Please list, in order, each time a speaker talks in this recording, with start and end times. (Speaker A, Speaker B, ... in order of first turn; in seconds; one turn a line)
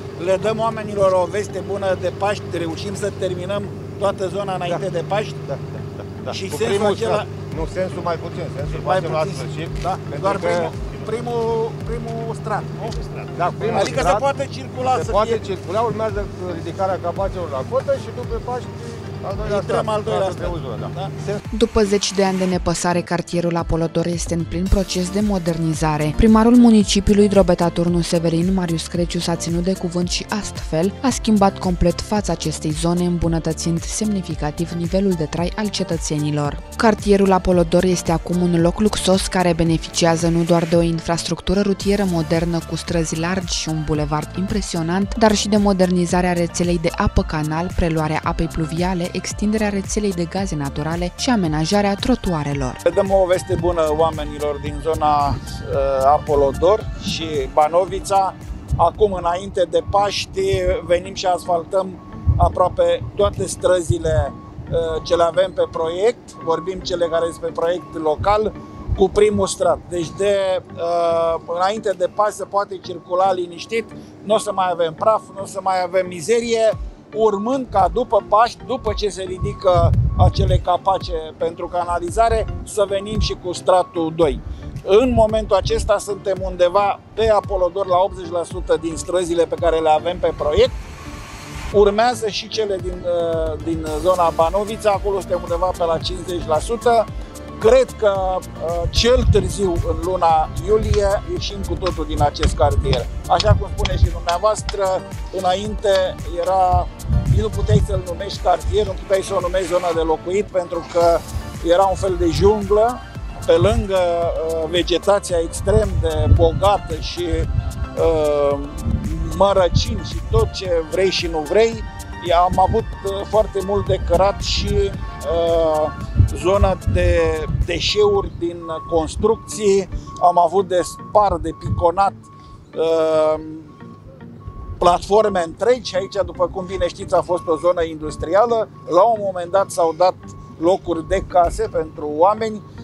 Speaker A: 0.2-5.5
Speaker B: 5.5-10.8
Speaker A: 6.3-7.3
Speaker A: 8.7-15.4
Speaker B: 13.3-14.3
Speaker B: 14.9-21.4
Speaker A: 19.4-21.1
Speaker C: 21.5-52.8
Speaker A: 52.8-90.8
Speaker A: 91.7-133.7
Speaker A: 134.8-142.6